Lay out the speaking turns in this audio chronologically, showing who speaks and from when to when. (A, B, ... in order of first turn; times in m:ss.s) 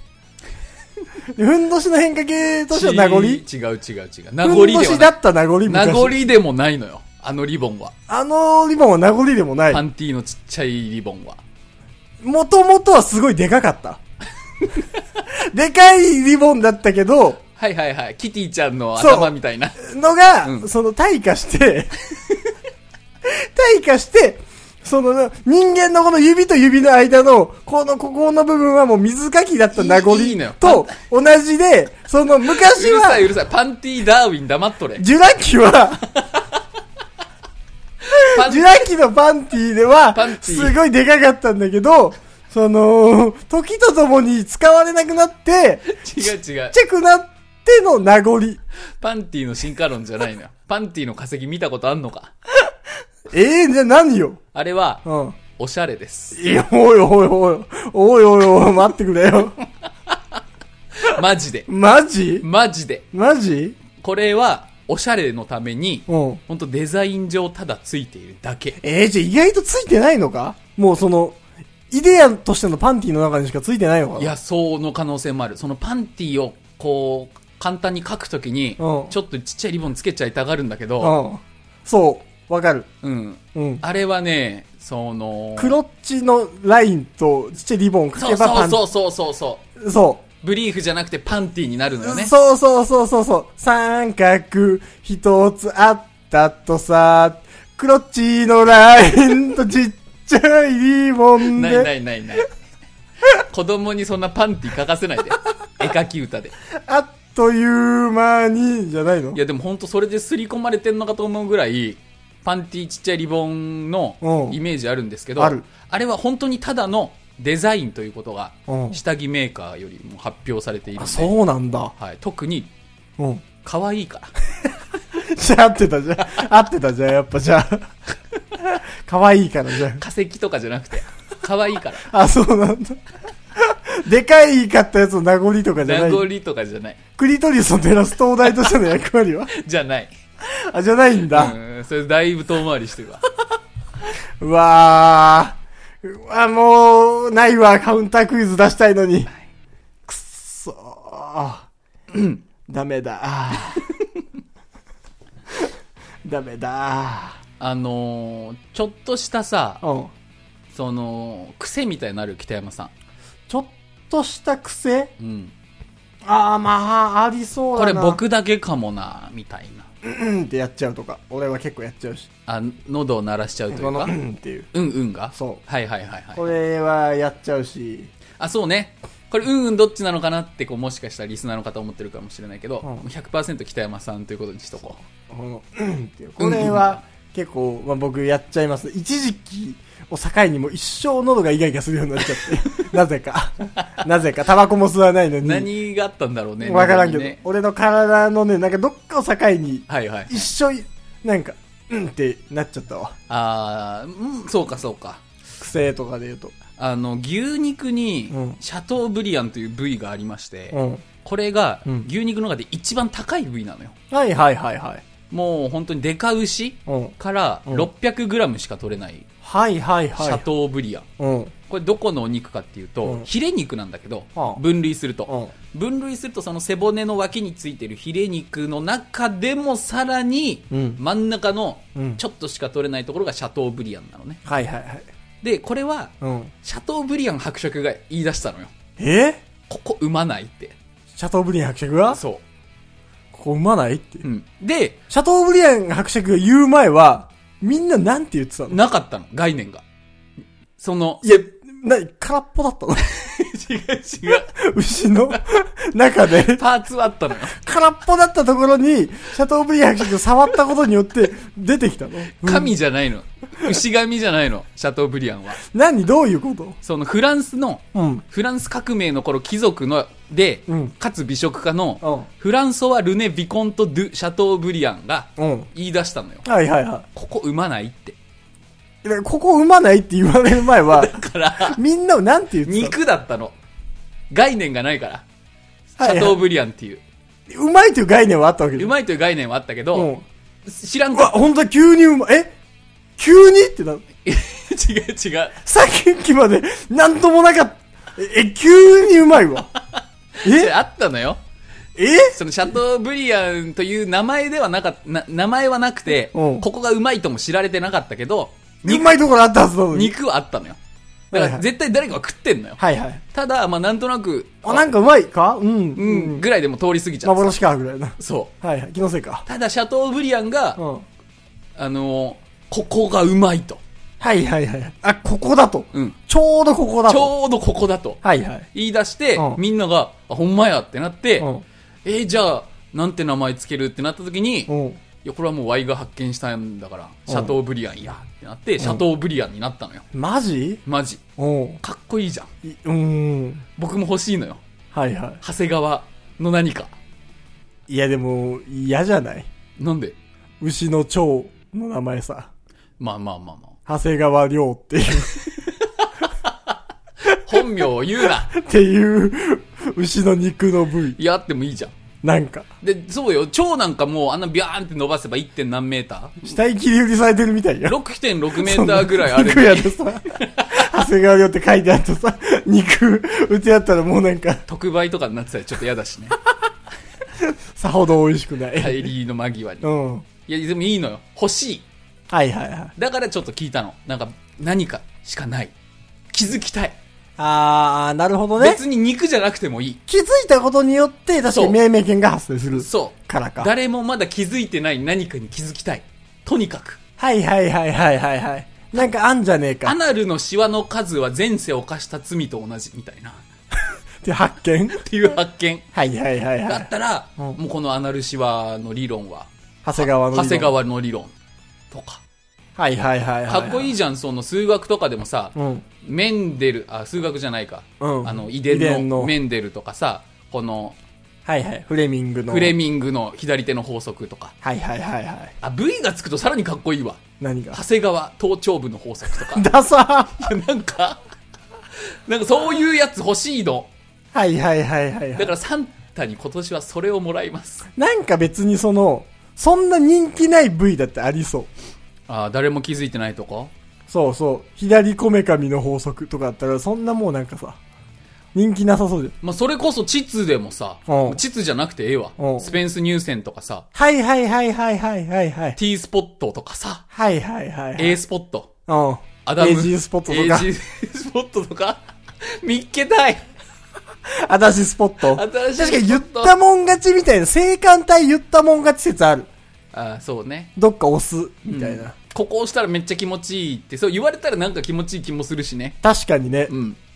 0:01.3-0:03.4 A
0:02.7-0:05.1 B
0:04.4-0:06.1 A
0:05.6-0:07.9 B
0:08.1-0:09.8 A
0:09.7-0:11.4 B
0:12.2-0:14.0 A
0:15.3-0:17.4 A
0:17.5-0:19.8 B
0:19.0-0:21.9 A
0:23.2-0:33.3 A
0:29.7-0:30.9 B
0:32.5-0:35.0 B
0:35.0-0:36.0 A
0:38.0-0:38.9 B
0:38.1-0:48.6 A
0:40.1-0:40.8 B
0:45.9-0:46.8 B
0:49.0-0:52.3 B
0:53.3-0:54.4 A
0:54.5-0:55.0 B
0:55.0-0:55.4 A
0:55.6-0:56.4 B
0:56.3-0:59.6 A
1:00.9-1:01.7 B
1:01.7-1:02.4 A
1:02.4-1:03.0 B
1:03.1-1:03.8 A
1:04.0-1:08.8 B
1:06.1-1:06.4 A
1:08.8-1:11.4 A
1:11.9-1:14.3 A
1:14.2-1:21.2 B
1:18.8-1:19.1 A
1:21.0-1:22.9 A
1:23.0-1:25.8 B
1:23.5-1:23.8 A
1:25.6-1:28.8 A
1:28.2-1:29.6 B
1:29.8-1:30.2 A
1:30.4-1:32.3 B
1:32.0-1:41.9 A
1:41.4-1:42.5 B
1:43.3-1:46.5 B
1:46.7-1:49.4 A
1:49.3-2:01.3 B
1:54.2-1:54.6 A
1:55.4-1:55.6 A
1:58.7-1:59.0 A
2:01.0-2:01.9 A
2:02.0-2:02.7 B
2:03.2-2:03.4 A
2:03.6-2:04.3 B
2:05.1-2:07.9 A
2:08.5-2:10.0 A
2:10.0-2:12.1 B
2:12.0-2:13.0 A
2:13.5-2:16.3 A
2:15.8-2:17.0 B
2:17.2-2:19.5 A
2:19.5-2:20.1 B
2:20.4-2:21.5 A
2:21.3-2:23.2 B
2:24.4-2:29.3 A
2:30.0-2:32.2 A
2:32.7-2:33.9 A
2:36.2-2:37.4 A
2:37.6-2:39.8 B
2:39.8-2:40.1 A
2:40.7-2:42.9 B
2:43.5-2:45.1 A
2:45.2-2:45.5 B
2:46.2-2:48.2 A
2:47.8-2:49.9 B
2:50.0-2:52.3 A
2:52.5-2:54.1 B
2:53.7-2:54.7 A
2:54.7-2:56.4 B
2:55.3-2:55.6 A
2:56.4-2:58.1 A
2:58.4-3:05.0 B
3:05.3-3:15.7 A
3:06.4-3:07.0 B
3:12.4-3:12.9 B
3:15.4-3:17.4 B
3:16.6-3:23.1 A
3:19.9-3:20.5 B
3:23.3-3:25.2 B
3:25.6-3:26.5 A
3:26.8-3:33.9 B
3:28.3-3:28.6 A
3:30.7-3:31.0 A
3:34.1-3:35.0 A
3:35.3-3:39.2 B
3:36.9-3:37.1 A
3:39.4-3:40.4 A
3:40.2-3:41.0 B
3:41.2-3:41.5 A
3:41.7-3:54.4 B
3:44.4-3:44.6 A
3:45.3-3:45.5 A
3:50.7-3:51.0 A
3:54.4-3:55.1 A
3:55.4-3:58.7 B
3:56.2-3:56.5 A
3:59.0-3:59.4 A
3:59.7-4:00.8 B
4:01.1-4:02.2 A
4:02.1-4:02.4 B
4:03.3-4:04.2 A
4:04.2-4:05.0 B
4:05.1-4:08.8 A
4:08.7-4:09.8 B
4:10.8-4:11.3 B
4:11.2-4:13.0 A
4:13.0-4:14.5 B
4:14.5-4:16.6 A
4:16.2-4:17.6 B
4:17.5-4:22.7 A
4:22.4-4:25.6 B
4:25.6-4:26.8 A
4:26.8-4:36.4 B
4:27.9-4:28.2 A
4:30.7-4:30.9 A
4:32.0-4:32.3 A
4:35.4-4:35.7 A
4:36.4-4:37.0 A
4:37.1-4:38.2 B
4:39.0-4:42.9 A
4:40.7-4:41.8 B
4:42.6-4:43.5 B
4:44.3-4:45.2 B
4:45.9-4:47.0 B
4:46.0-4:46.4 A
4:47.5-4:48.9 A
4:48.8-4:50.1 B
4:49.9-4:50.2 A
4:50.6-4:51.4 B
4:51.1-4:52.5 A
4:53.2-4:54.0 A
4:54.2-4:55.6 B
4:55.6-4:59.7 A
5:00.0-5:01.4 B
5:00.4-5:00.7 A
5:02.0-5:02.4 A
5:02.3-5:09.2 B
5:06.3-5:06.6 A
5:08.8-5:10.2 A
5:09.9-5:10.8 B
5:11.3-5:11.6 A
5:11.3-5:12.8 B
5:12.8-5:13.2 A
5:13.3-5:14.9 B
5:14.6-5:16.4 A
5:15.9-5:17.5 B
5:17.2-5:19.4 A
5:18.2-5:18.5 B
5:19.4-5:20.8 B
5:20.8-5:21.0 A
5:21.8-5:23.8 B
5:24.2-5:27.3 A
5:27.1-5:28.2 B
5:28.2-5:28.7 A
5:28.7-5:31.5 B
5:31.4-5:31.6 A
5:32.0-5:40.0 B
5:34.7-5:35.0 A
5:37.3-5:37.6 A
5:40.1-5:40.8 A
5:40.8-5:41.2 B
5:41.4-5:41.8 A
5:41.8-5:42.5 B
5:42.6-5:43.6 A
5:43.8-5:44.6 B
5:44.9-5:45.4 A
5:45.4-5:46.9 B
5:47.9-5:49.5 A
5:49.8-5:50.2 B
5:50.6-5:52.5 A
5:53.0-5:53.8 B
5:53.9-5:55.4 A
5:55.8-5:56.7 B
5:57.2-5:58.5 B
5:57.3-5:57.6 A
5:58.2-6:01.2 A
6:01.1-6:01.9 B
6:02.2-6:02.7 A
6:02.8-6:06.4 B
6:06.4-6:08.0 A
6:07.8-6:10.8 B
6:08.5-6:14.6 A
6:14.7-6:16.4 B
6:17.4-6:19.1 A
6:18.8-6:19.9 B
6:19.8-6:20.2 A
6:20.4-6:21.8 B
6:22.3-6:22.9 A
6:23.0-6:25.7 B
6:26.3-6:27.0 B
6:27.4-6:28.8 A
6:28.6-6:30.0 B
6:30.1-6:33.7 A
6:31.5-6:31.8 B
6:32.8-6:37.0 B
6:37.2-6:40.0 A
6:39.8-6:43.4 B
6:44.2-6:45.0 A
6:44.9-6:45.8 B
6:45.9-6:47.6 A
6:46.6-6:51.3 B
6:49.8-6:50.7 A
6:51.9-6:52.2 B
6:52.8-6:53.9 A
6:53.5-7:01.0 B
6:55.5-6:55.8 A
6:58.0-6:59.3 A
7:01.4-7:02.7 A
7:02.5-7:04.5 B
7:04.6-7:05.5 A
7:05.6-7:07.2 B
7:07.4-7:07.8 A
7:07.7-7:09.7 B
7:09.5-7:10.5 A
7:10.4-7:11.2 B
7:12.2-7:13.9 B
7:14.3-7:15.5 A
7:15.4-7:17.9 B
7:18.0-7:21.7 A
7:22.3-7:23.7 B
7:24.1-7:27.8 A
7:28.5-7:29.3 A
7:29.4-7:33.8 B
7:31.1-7:31.4 A
7:32.4-7:32.8 A
7:33.9-7:35.8 A
7:35.8-7:37.0 B
7:37.1-7:38.2 A
7:38.0-7:38.7 B
7:38.9-7:40.7 A
7:39.4-7:43.4 B
7:44.3-7:49.5 A
7:45.2-7:46.5 B
7:49.9-7:50.7 B
7:50.8-7:52.1 A
7:51.7-7:56.0 B
7:56.0-7:56.7 A
7:56.7-7:57.0 B